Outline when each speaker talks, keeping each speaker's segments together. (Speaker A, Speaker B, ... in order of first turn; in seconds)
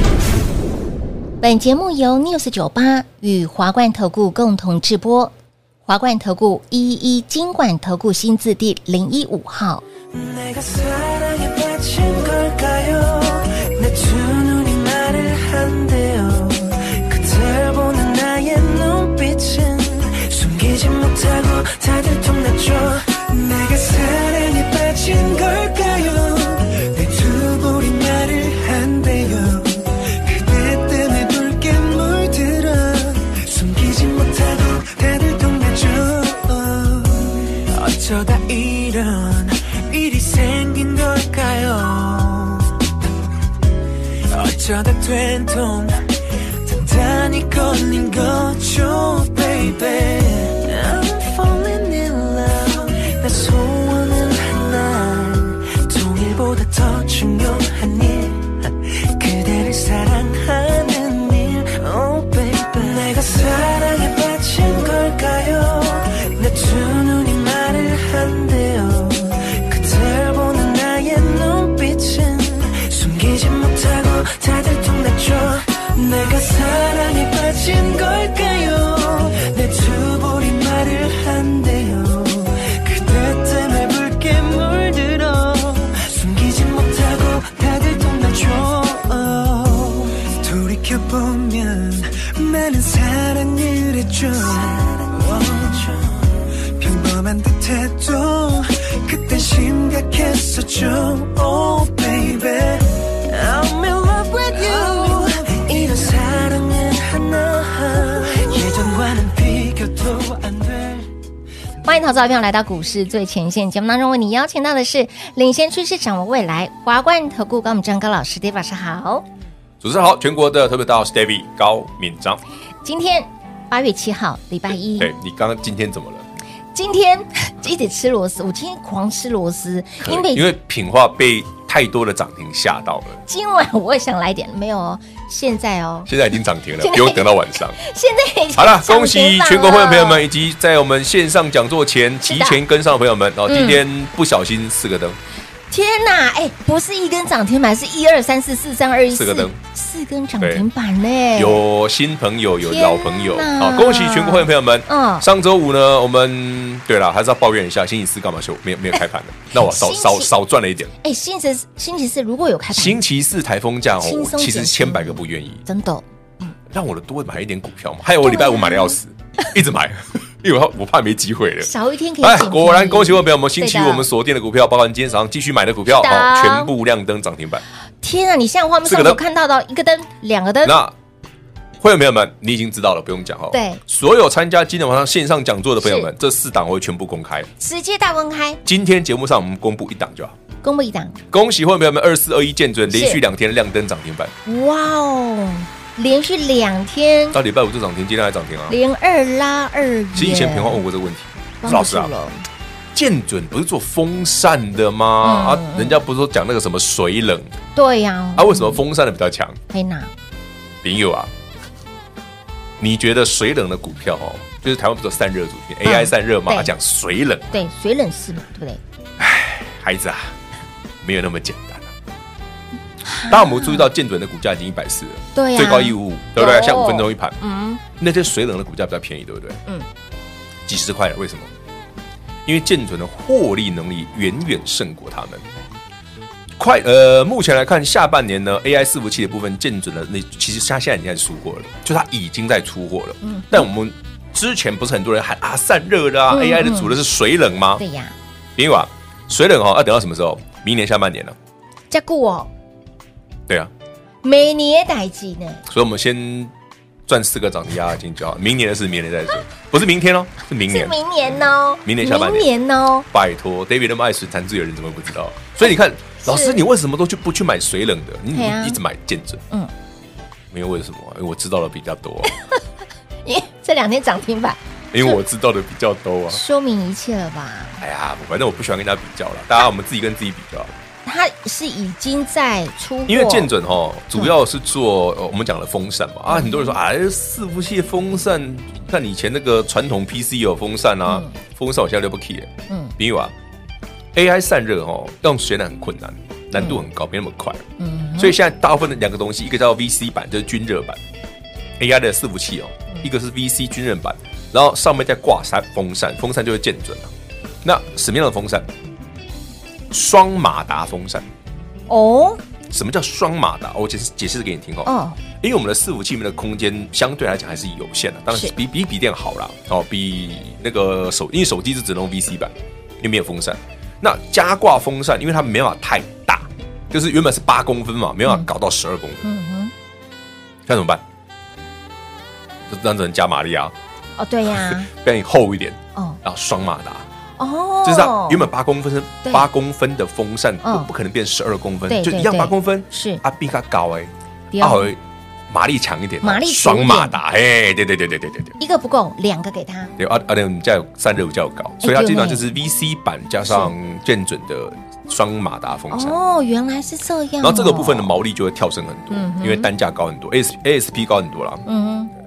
Speaker A: 1.4-5.3, 5.9-9.8, 111.8-119.2, 122.8-125.1, 126.7-130.5, 133.2-136.1, 136.8-140.2, 142.2-142.6, 143.5-143.8, 145.7-151.6, 152.6-155.3, 159.6-160.3, 161.0-163.0, 164.0-166.5, 168.2-169.0, 171.6-174.1, 175.9-176.7, 178.0-180.8, 183.5-183.8, 185.8-186.1, 187.6-188.6, 190.6-191.2, 192.9-193.2, 194.4-197.4, 198.7-200.8, 201.6-202.4, 205.2-206.0, 207.8-208.8, 209.7-210.1, 215.8-216.7, 217.5-218.8, 223.0-223.9, 225.3-227.8, 243.2-243.7, 246.3-247.0, 247.8-248.1, 251.9-252.5, 254.2-255.6, 260.6-263.1, 266.2-266.6, 268.3-268.8, 273.2-275.2, 276.3-277.8, 281.0-283.5, 286.3-286.8, 291.1-291.4, 297.8-298.4, 311.9-312.4, 314.8-315.2, 329.2-329.7, 334.2-334.9, 337.4-338.5, 339.2-339.5, 340.6-340.9, 341.9-343.2, 344.5-344.9, 346.2-347.2, 348.6-349.9, 351.8-352.5, 353.5-353.7, 355.9-358.2, 359.1-359.7, 361.6-362.1
Speaker B: 10.1-42.8, 44.3-46.1, 46.6-111.1
Speaker C: 119.8-122.4, 125.0-126.3, 130.0-133.2, 136.1-137.8, 138.6-145.2, 149.1-149.6, 150.4-150.7, 151.3-160.9, 162.7-165.6, 166.7-177.6, 178.8-179.2, 180.6-180.9, 181.8-187.5, 188.6-190.4, 191.3-194.3, 197.3-198.8, 200.1-202.1, 202.9-207.5, 208.4-209.6, 210.8-211.3, 212.8-217.6, 219.2-220.3, 221.0-221.9, 223.3-227.4, 228.0-229.6, 230.7-231.5, 232.4-235.5, 236.6-247.8, 248.6-251.3, 255.7-256.5, 257.1-262.5, 263.1-269.4, 270.5-272.3, 274.9-276.4, 277.8-280.7, 283.1-293.3, 294.1-297.6, 298.2-301.0, 301.8-307.1, 307.6-308.7, 309.9-311.3, 312.7-329.2, 330.6-331.0, 332.7-333.7, 334.5-337.1, 337.8-348.5, 350.0-356.2, 357.4-361.6